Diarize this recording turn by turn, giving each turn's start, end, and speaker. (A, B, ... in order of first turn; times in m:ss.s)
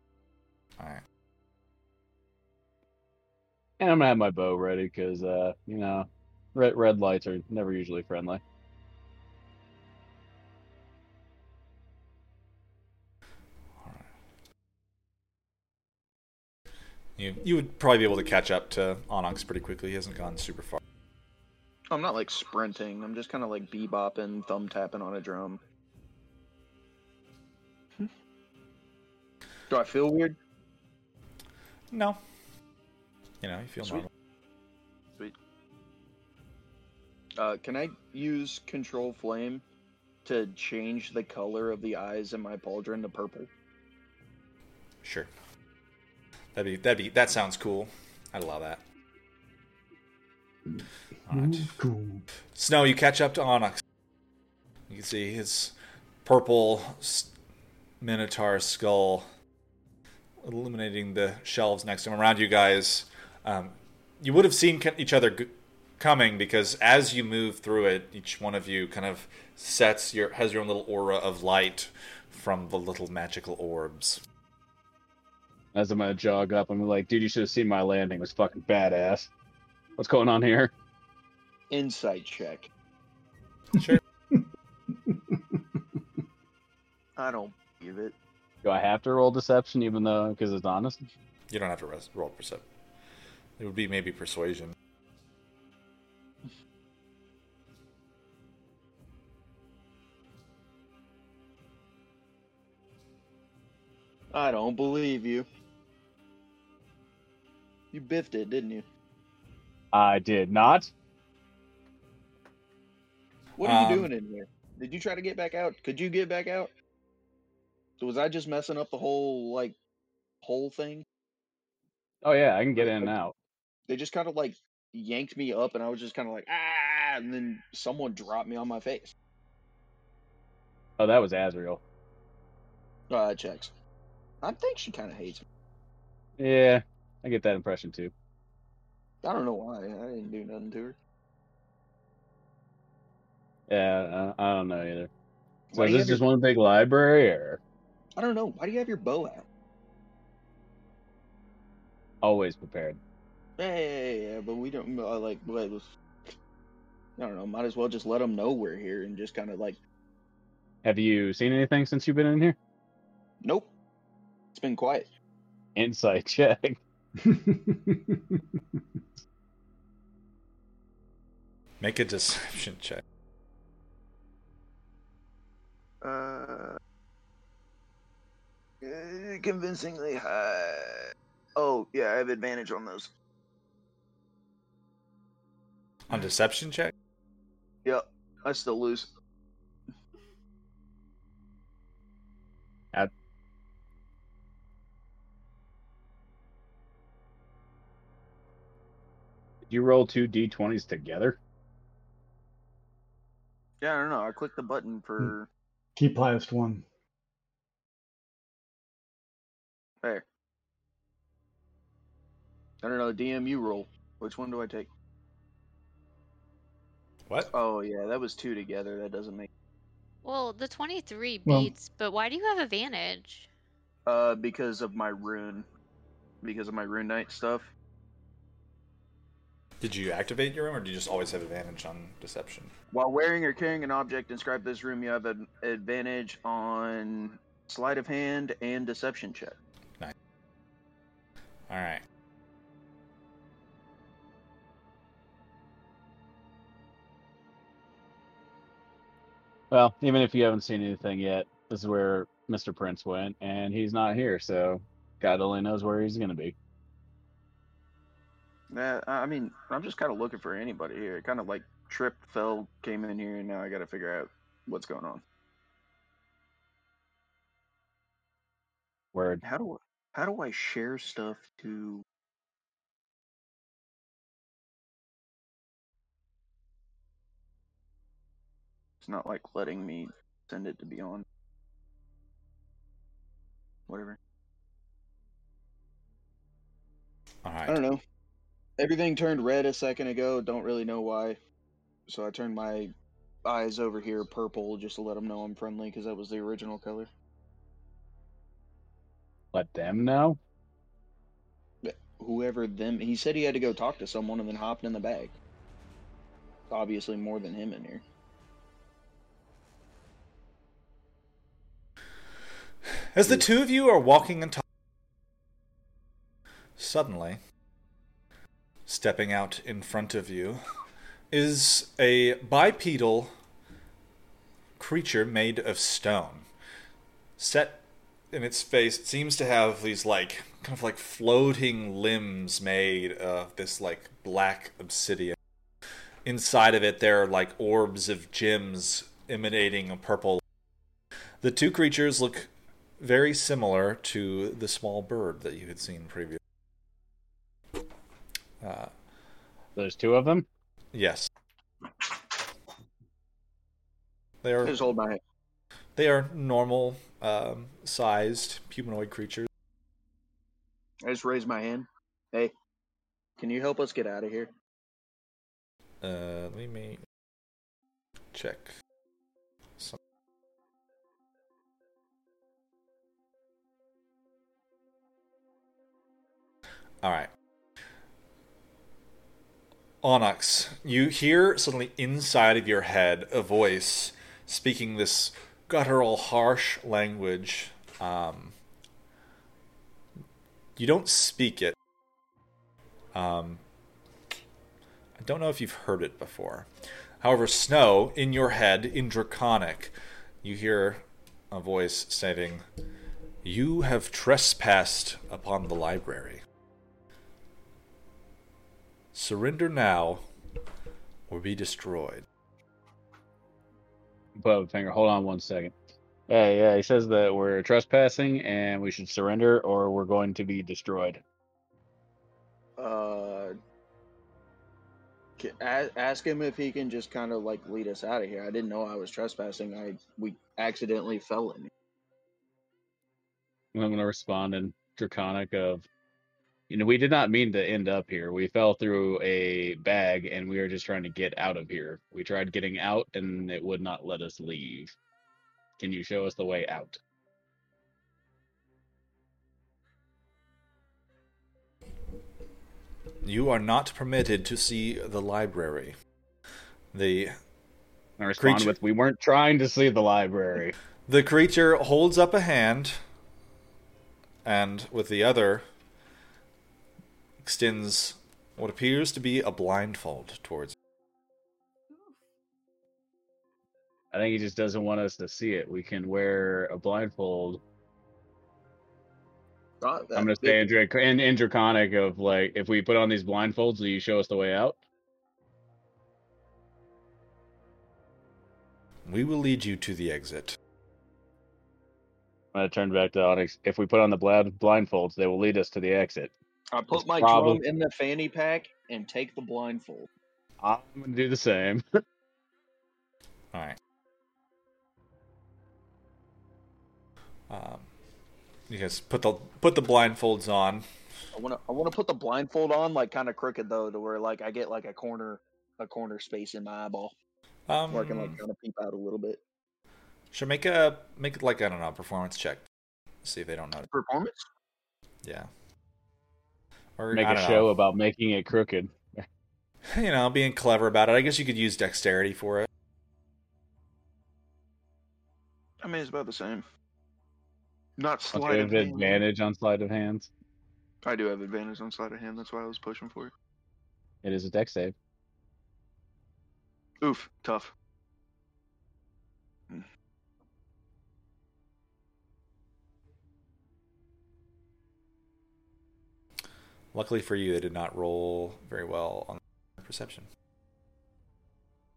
0:03.8-0:08.4 A
0:17.2-0:20.8 B
0:21.9-0:25.6 C
0:29.7-0:30.4 C
0:31.9-0:32.2 B
0:33.4-0:34.1 B
0:37.4-0:39.6 C
0:40.2-0:43.5 C
0:45.0-0:45.3 B
0:46.6-0:48.8 B
0:50.7-0:52.2 D
0:51.3-0:51.7 B
0:52.6-0:53.8 B
0:54.9-0:57.3 B
0:58.0-0:59.3 B
1:00.4-1:14.2 B
1:15.8-1:19.3 A
1:20.0-1:20.7 A
1:21.7-1:22.7 C
1:23.8-1:24.0 B
1:23.8-1:24.5 D
1:25.0-1:25.8 D
1:27.2-1:28.2 C
1:28.6-1:31.0 A
1:31.5-1:32.6 B
1:33.6-1:34.8 B
1:44.3-1:45.5 C
1:47.9-1:48.8 C
1:49.9-1:50.9 A
1:53.6-1:56.7 C
1:53.6-1:54.1 B
1:58.0-1:59.8 C
2:00.4-2:01.0 C
2:02.2-2:03.3 A
2:02.8-2:03.2 C
2:03.9-2:09.1 C
2:11.0-2:11.8 A
2:13.1-2:13.7 C
2:14.4-2:15.4 C
2:16.4-2:18.1 A
2:19.2-2:21.0 C
2:23.7-2:25.1 A
2:25.7-2:26.2 C
2:25.8-2:27.6 A
2:28.2-2:29.4 C
2:32.2-2:33.0 A
2:33.6-2:35.9 C
2:37.2-2:39.8 C
2:40.8-2:42.6 A
2:43.4-2:43.7 C
2:44.5-2:45.1 C
2:45.8-2:46.8 A
2:47.2-2:48.8 D
2:51.8-2:53.0 B
2:56.0-2:56.8 C
2:58.8-3:03.1 C
3:06.1-3:06.9 B
3:07.8-3:09.2 C
3:19.7-3:21.4 A
3:23.8-3:25.5 C
3:26.0-3:26.8 D
3:32.8-3:34.9 C
3:37.3-3:37.5 B
3:37.5-3:39.5 C
3:40.2-3:43.5 E
3:41.5-3:41.7 D
3:44.1-3:45.7 C
3:46.4-3:47.7 C
3:49.8-3:52.7 B
3:52.9-3:59.6 C
4:01.7-4:02.0 B
4:09.7-4:16.6 A
4:18.7-4:25.2 C
4:29.1-4:29.4 A
4:29.4-4:32.0 C
4:39.0-4:41.2 C
4:43.9-4:44.2 C
4:47.4-4:47.8 B
4:47.7-4:48.0 C
4:48.8-4:51.4 C
4:52.1-4:52.9 C
4:53.4-4:57.1 C
4:59.5-5:00.4 A
5:01.8-5:05.3 C
5:06.7-5:08.0 C
5:13.1-5:14.6 B
5:16.8-5:17.4 B
5:18.9-5:20.6 B
5:21.3-5:23.3 B
5:24.8-5:26.5 B
5:27.4-5:35.4 B
5:36.2-5:40.4 B
5:41.4-5:46.4 B
5:48.6-5:48.9 B
5:49.8-5:50.5 A
5:50.9-5:51.3 B
5:54.4-5:54.8 B
5:54.6-5:55.2 C
5:56.0-5:59.5 B
6:01.0-6:02.5 C
6:03.4-6:04.5 C
6:06.0-6:07.0 B
6:08.3-6:08.7 B
6:17.0-6:17.3 B
6:20.0-6:28.5 B
6:30.8-6:31.8 B
6:33.1-6:33.6 B
6:35.2-6:36.7 B
6:37.2-6:42.6 B
6:43.4-6:46.4 B
6:49.1-6:50.3 B
6:51.3-6:52.3 B
6:54.4-6:55.8 A
6:56.3-7:01.2 A
7:02.8-7:03.6 C
7:05.4-7:11.7 C
7:13.7-7:15.9 A
7:16.7-7:25.0 A
7:25.8-7:27.0 A
7:33.2-7:36.0 B
7:36.9-7:37.4 B
7:38.2-7:40.8 A
7:38.4-7:38.8 B
7:41.1-7:43.0 B
7:44.4-7:45.6 B
7:47.4-7:50.8 B
7:54.1-7:57.6 A
7:59.8-8:00.7 C
8:00.2-8:04.8 A
8:09.1-8:10.6 B
8:12.5-8:16.3 A
8:16.7-8:20.1 C
8:16.9-8:17.6 A
8:20.6-8:21.8 A
8:27.5-8:27.9 B
8:28.7-8:30.8 B
8:31.3-8:37.1 C
8:37.7-8:38.4 B
8:37.9-8:39.4 C
8:40.3-8:42.6 B
8:43.2-8:43.9 B
8:43.9-8:44.5 C
8:45.2-8:45.5 B
8:47.0-8:47.7 B
8:47.1-8:49.3 A
8:49.9-8:52.7 B
8:55.8-8:56.7 C
8:58.0-8:59.2 C
8:58.3-9:00.3 A
9:01.0-9:03.3 C
9:04.2-9:05.0 A
9:07.0-9:07.7 C
9:16.9-9:20.3 B